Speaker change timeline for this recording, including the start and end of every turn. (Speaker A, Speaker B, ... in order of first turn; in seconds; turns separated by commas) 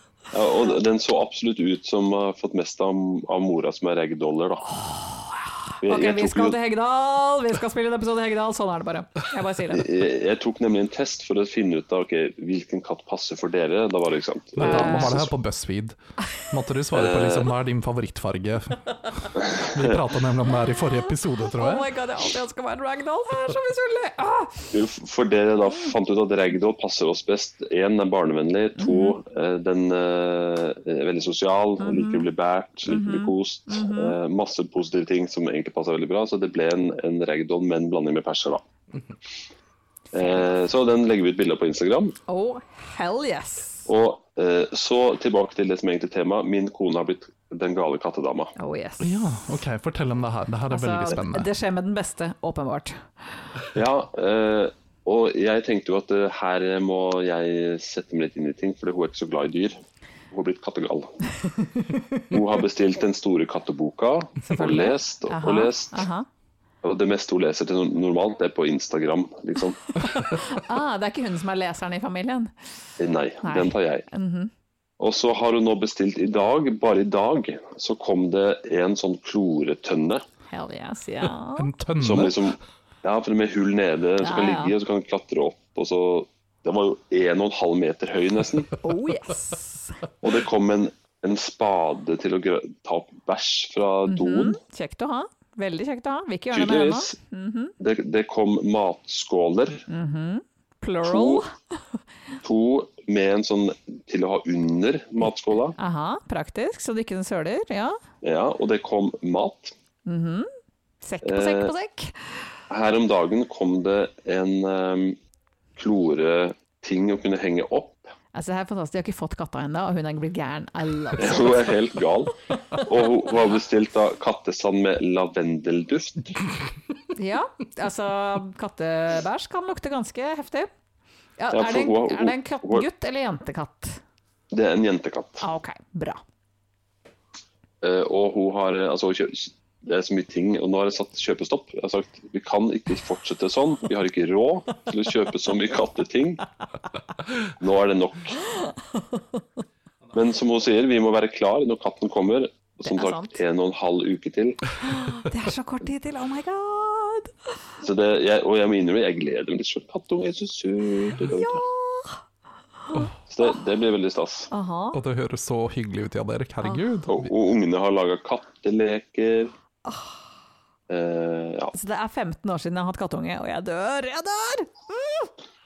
Speaker A: 0.3-4.6, Speaker B: 4.7-9.9, Speaker A: 5.8-6.5, Speaker A: 9.7-15.3, Speaker C: 14.6-16.0, Speaker B: 14.6-15.2, Speaker C: 16.5-21.9, Speaker A: 16.9-17.5, Speaker A: 19.5-19.8, Speaker B: 21.4-24.7, Speaker A: 24.7-38.6, Speaker B: 28.8-29.2, Speaker B: 31.8-32.2, Speaker B: 32.9-34.2, Speaker A: 40.1-42.1, Speaker B: 42.3-43.9, Speaker A: 43.9-48.5, Speaker B: 48.5-49.1, Speaker C: 49.0-51.5, Speaker B: 50.7-53.0, Speaker A: 53.7-59.8, Speaker A: 60.3-61.1, Speaker B: 61.5-62.2, Speaker A: 62.3-66.0, Speaker B: 64.4-66.3, Speaker A: 66.8-70.0, Speaker B: 70.0-72.5, Speaker A: 73.0-74.0, Speaker B: 73.4-74.5, Speaker A: 75.0-80.2, Speaker B: 80.5-81.7, Speaker C: 81.5-82.4, Speaker A: 82.0-88.7, Speaker B: 84.2-84.7, Speaker B: 88.8-90.0, Speaker A: 90.2-94.6, Speaker B: 94.1-97.7, Speaker A: 96.5-97.1, Speaker A: 97.8-99.8, Speaker B: 99.9-101.5, Speaker A: 101.0-101.4, Speaker A: 102.4-105.7, Speaker B: 105.8-108.0, Speaker A: 108.2-109.7, Speaker B: 110.0-110.5, Speaker B: 111.0-112.4, Speaker A: 111.2-111.7, Speaker A: 112.7-115.2, Speaker A: 115.8-118.1, Speaker B: 118.3-121.8, Speaker A: 121.2-126.4, Speaker B: 127.1-130.7, Speaker B: 131.4-134.0, Speaker A: 131.5-132.8, Speaker A: 134.5-135.4, Speaker B: 135.4-136.2, Speaker A: 137.8-146.4, Speaker A: 147.6-148.4, Speaker B: 148.5-149.4, Speaker A: 150.1-154.7, Speaker B: 152.9-153.3, Speaker B: 154.8-157.5, Speaker A: 157.8-161.6, Speaker B: 161.3-162.2, Speaker B: 162.8-163.5, Speaker A: 163.3-164.5, Speaker B: 164.5-165.0, Speaker C: 164.9-167.3, Speaker A: 167.1-169.5, Speaker B: 169.8-170.2, Speaker A: 170.9-171.7, Speaker B: 171.7-175.3